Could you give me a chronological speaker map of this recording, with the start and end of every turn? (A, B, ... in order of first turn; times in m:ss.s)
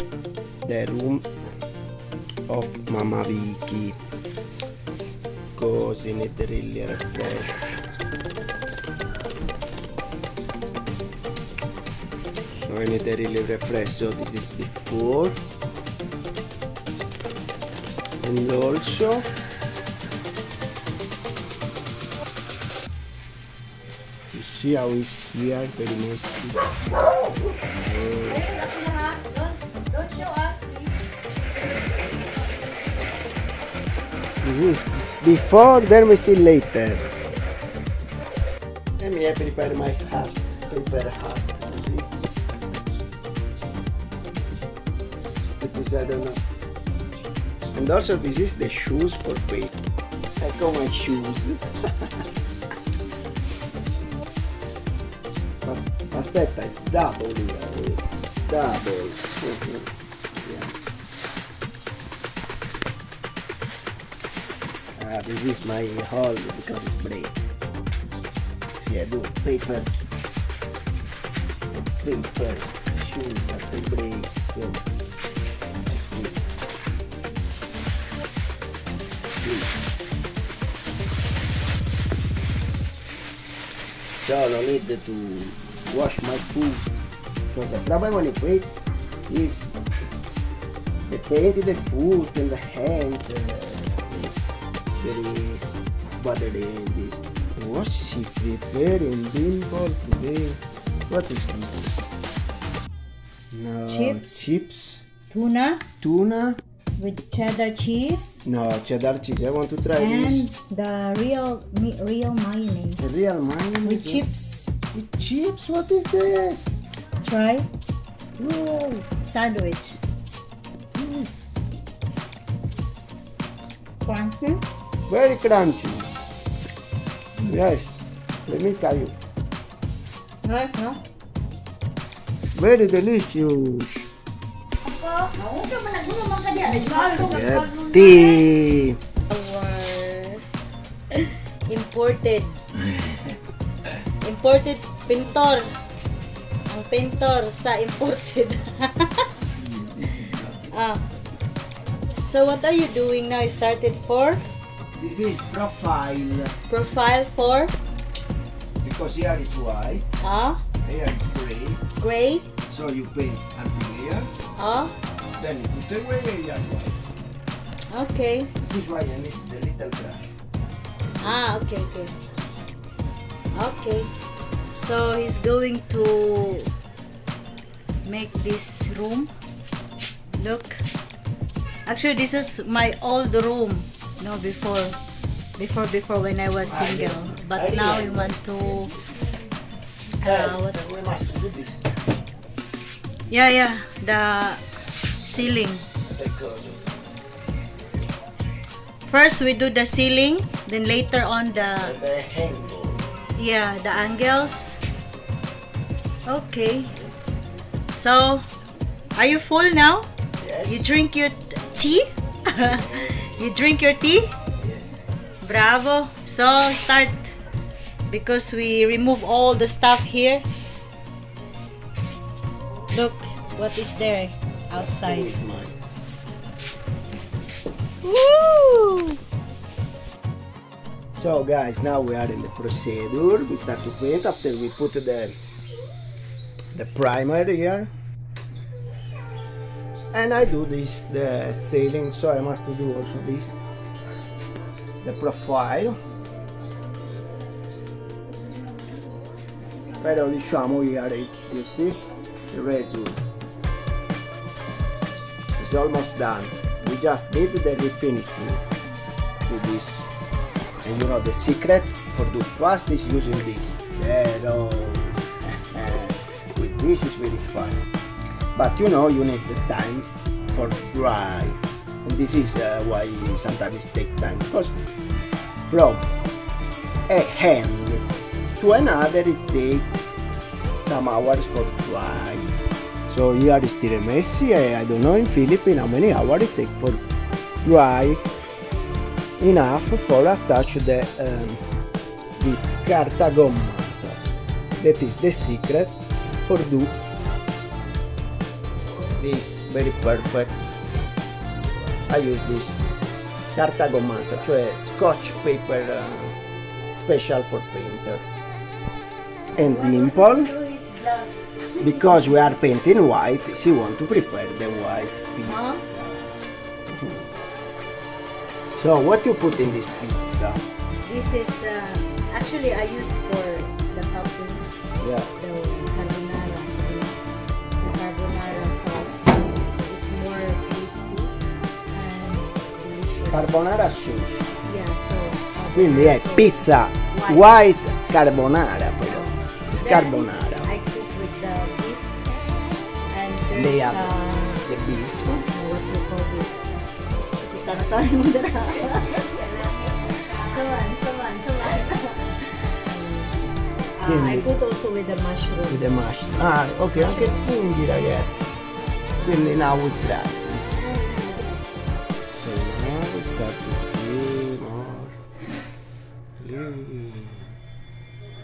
0:00.6-0:01.3 A
0:02.5-0:04.0 A
0:05.6-0:07.8 A
0:12.5-0:15.4 A
0:18.2-0:19.3 A
0:24.3-0:26.7 A
0:27.7-0:28.4 A
0:28.2-0:31.1 B
0:31.6-0:32.7 B
0:34.4-0:37.1 A
0:39.0-0:42.2 A
0:45.6-0:46.4 A
0:47.7-0:49.7 A
0:50.4-0:52.3 A
0:55.6-1:00.7 A
1:05.0-1:07.4 A
1:08.8-1:09.9 A
1:12.0-1:14.8 A
1:15.9-1:16.4 A
1:19.4-1:19.8 A
1:24.2-1:26.9 A
1:27.5-1:28.7 A
1:29.3-1:29.7 A
1:31.1-1:34.3 A
1:35.0-1:35.6 A
1:36.2-1:41.9 A
1:43.5-1:45.0 A
1:43.9-1:44.4 B
1:45.3-1:45.8 B
1:46.0-1:46.6 A
1:47.0-1:48.4 B
1:48.4-1:50.5 A
1:50.0-1:53.2 B
1:53.0-1:54.2 A
1:53.8-1:54.7 B
1:54.9-1:56.7 A
1:57.2-1:57.7 B
1:58.4-1:59.1 A
1:59.2-2:00.0 B
2:01.0-2:01.3 A
2:04.0-2:04.6 B
2:05.1-2:06.1 A
2:07.4-2:09.1 A
2:10.4-2:11.0 B
2:12.6-2:14.0 A
2:14.8-2:18.4 B
2:17.0-2:19.0 A
2:19.3-2:20.4 B
2:21.1-2:22.6 B
2:24.2-2:25.6 B
2:26.7-2:29.3 B
2:29.6-2:30.7 A
2:30.7-2:31.0 B
2:32.2-2:34.4 B
2:35.0-2:36.6 A
2:36.7-2:37.7 B
2:38.8-2:40.0 A
2:40.2-2:40.6 B
2:40.8-2:41.8 A
2:42.0-2:42.5 B
2:42.7-2:44.3 A
2:44.6-2:44.9 B
2:45.4-2:47.0 A
2:47.9-2:48.5 B
2:48.6-2:50.2 A
2:51.2-2:52.2 B
2:53.5-2:54.1 B
2:54.7-2:56.7 B
2:58.0-2:59.3 B
3:00.4-3:00.8 B
3:01.9-3:05.0 B
3:05.6-3:08.9 B
3:06.6-3:08.4 A
3:10.2-3:10.8 B
3:10.2-3:11.9 A
3:13.3-3:14.6 B
3:15.2-3:15.8 B
3:16.0-3:16.8 A
3:19.1-3:22.0 B
3:21.8-3:23.3 A
3:23.4-3:24.8 B
3:26.3-3:26.9 B
3:27.9-3:28.4 B
3:29.2-3:30.1 B
3:30.4-3:30.8 A
3:30.6-3:34.3 B
3:32.6-3:33.4 A
3:34.6-3:34.9 A
3:35.4-3:37.3 B
3:38.1-3:40.4 B
3:42.9-3:45.4 B
3:44.8-3:45.8 A
3:48.0-3:49.2 B
3:51.1-3:55.3 A
3:56.7-3:57.9 A
4:00.1-4:03.5 A
4:05.0-4:06.0 A
4:10.0-4:12.0 A
4:12.5-4:13.2 A
4:15.6-4:18.6 A
4:19.5-4:20.1 A
4:20.8-4:27.9 A
4:28.6-4:34.8 A
4:35.7-4:36.1 A
4:37.1-4:38.0 A
4:38.6-4:39.9 A
4:40.8-4:42.5 A
4:43.1-4:47.0 A
4:47.6-4:48.3 A
4:49.4-4:51.6 A
4:52.4-4:54.2 A
4:54.8-4:57.0 A
4:59.2-5:00.6 A
5:02.1-5:02.8 A
5:03.6-5:06.4 A
5:06.9-5:08.2 A
5:09.6-5:10.5 A
5:09.6-5:12.6 B
5:11.8-5:16.1 A
5:15.4-5:15.8 B
5:16.9-5:17.3 A
5:18.8-5:20.6 A
5:21.0-5:24.8 B
5:25.0-5:25.3 A
5:25.4-5:27.2 B
5:27.8-5:31.3 B
5:27.9-5:28.7 A
5:31.9-5:33.6 B
5:33.3-5:34.5 A
5:34.6-5:37.7 B
5:35.7-5:40.7 A
5:39.0-5:42.2 B
5:43.1-5:44.7 B
5:43.5-5:45.4 A
5:45.3-5:46.7 B
5:47.4-5:57.8 B
5:54.0-5:54.5 A
5:55.7-5:58.4 A
5:59.2-6:00.6 A
6:00.8-6:01.6 B
6:02.3-6:05.1 A
6:06.4-6:07.5 A